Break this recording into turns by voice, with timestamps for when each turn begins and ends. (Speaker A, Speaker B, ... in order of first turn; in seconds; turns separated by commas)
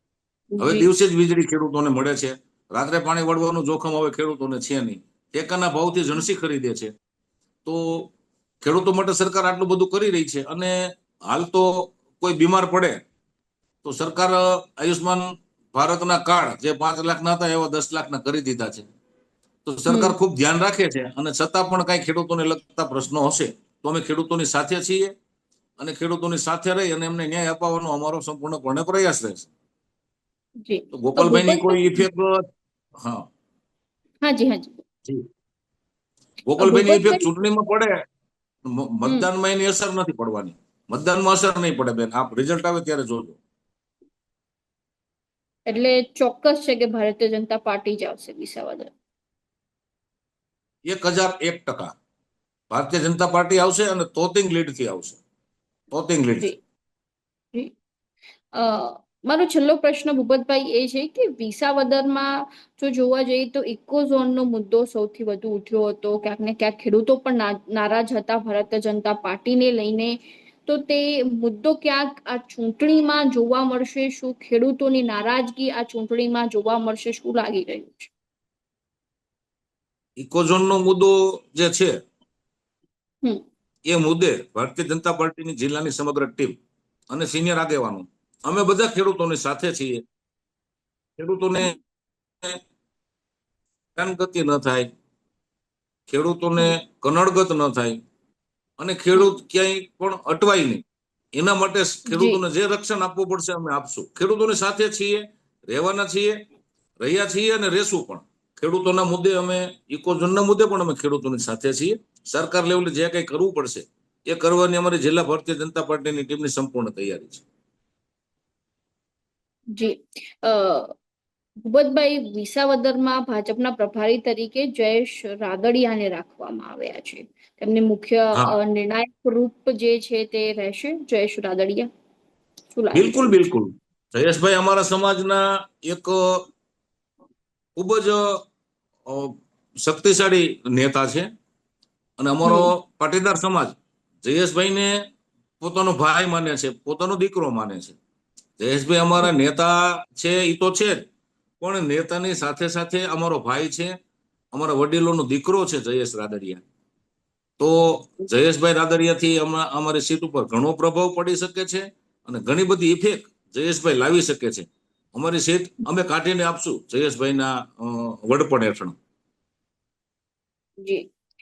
Speaker A: 0.5-0.9, Speaker B: 0.6-6.9, Speaker B: 7.7-8.1, Speaker B: 8.6-10.8, Speaker B: 11.3-12.9, Speaker B: 13.8-18.9, Speaker B: 19.6-25.1, Speaker A: 19.9-20.1, Speaker B: 25.8-29.5, Speaker A: 30.6-32.1, Speaker B: 30.9-32.4, Speaker A: 34.2-34.8, Speaker B: 36.5-37.9, Speaker A: 36.6-37.3, Speaker B: 38.8-43.4, Speaker A: 45.7-48.9, Speaker B: 50.9-51.9, Speaker B: 52.7-55.2, Speaker B: 55.9-56.5, Speaker A: 58.5-70.2, Speaker A: 70.7-78.1, Speaker B: 80.2-81.9, Speaker B: 83.9-86.6, Speaker B: 87.1-90.0, Speaker B: 91.2-91.8, Speaker B: 94.0-94.9, Speaker B: 96.1-98.0, Speaker B: 98.8-100.8, Speaker B: 101.4-106.4, Speaker A: 102.1-102.4, Speaker B: 107.0-117.4, Speaker A: 119.8-120.9, Speaker A: 121.7-131.9, Speaker A: 132.7-133.3, Speaker B: 132.9-136.2, Speaker B: 137.8-138.2, Speaker B: 139.1-141.3, Speaker B: 142.2-144.9, Speaker A: 142.4-142.7, Speaker B: 145.6-148.0, Speaker B: 148.6-151.0, Speaker B: 151.6-153.9, Speaker B: 154.5-156.6, Speaker B: 157.6-168.9